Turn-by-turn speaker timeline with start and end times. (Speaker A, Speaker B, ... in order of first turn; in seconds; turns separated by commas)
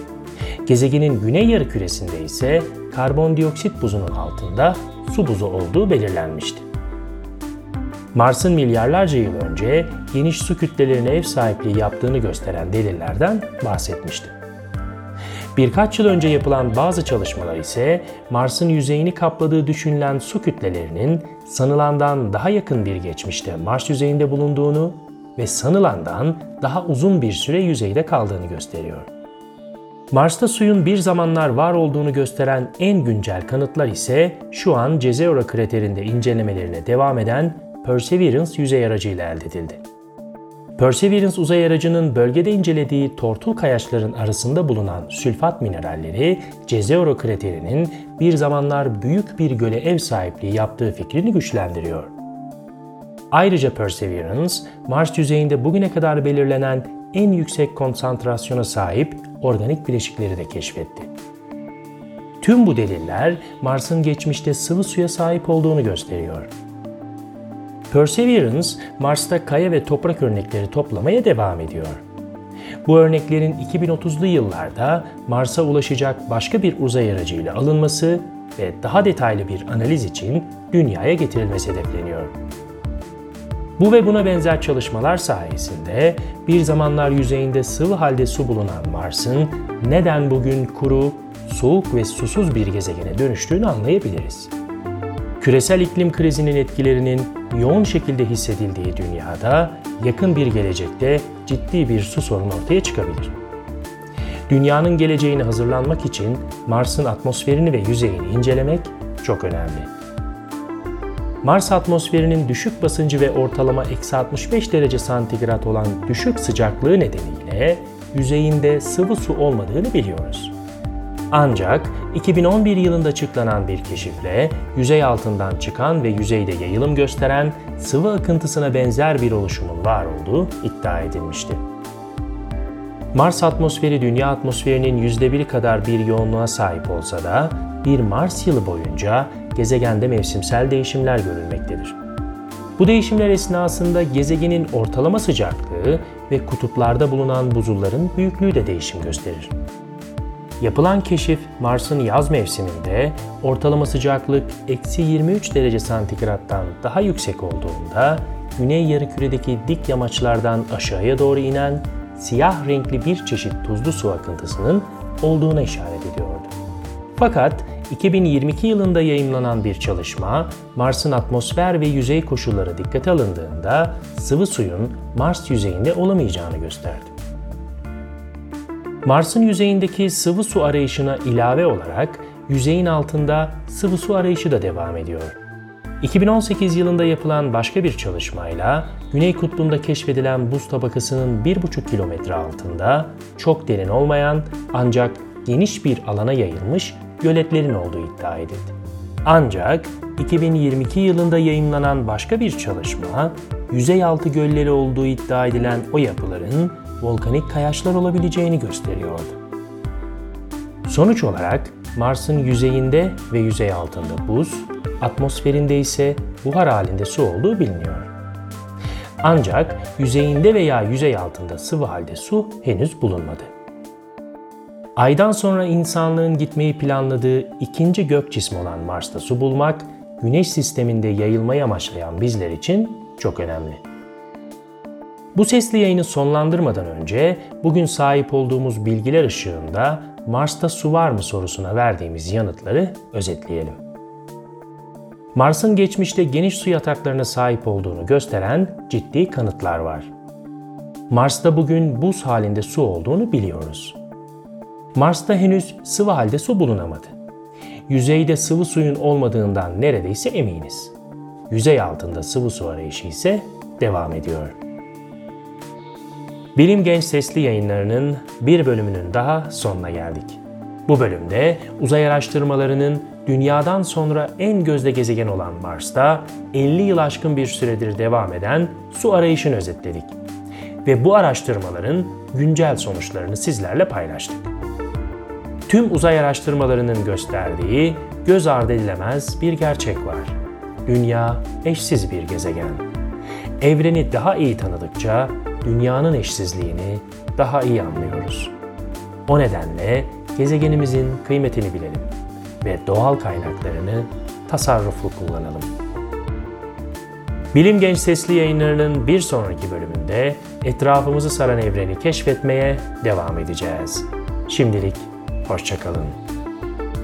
Speaker A: 0.6-6.7, Speaker A: 8.1-14.3, Speaker A: 15.5-29.1, Speaker A: 30.1-39.8, Speaker A: 40.8-52.1, Speaker A: 53.3-61.1, Speaker A: 62.4-66.5, Speaker A: 67.9-72.0, Speaker A: 72.8-82.4, Speaker A: 83.8-94.5, Speaker A: 95.4-103.3, Speaker A: 104.5-109.9, Speaker A: 111.4-120.5, Speaker A: 121.3-131.6, Speaker A: 133.1-142.0, Speaker A: 142.8-149.6, Speaker A: 150.6-166.5, Speaker A: 167.2-177.1, Speaker A: 179.0-185.4, Speaker A: 186.0-209.4, Speaker A: 210.8-218.1, Speaker A: 219.2-223.5, Speaker A: 224.9-233.8, Speaker A: 235.3-243.8, Speaker A: 245.3-250.1, Speaker A: 251.1-254.0, Speaker A: 254.9-257.2, Speaker A: 257.9-260.9, Speaker A: 261.5-264.6, Speaker A: 266.5-280.1, Speaker A: 280.8-284.5, Speaker A: 285.7-292.9, Speaker A: 293.6-298.5, Speaker A: 299.3-305.8, Speaker A: 307.5-316.2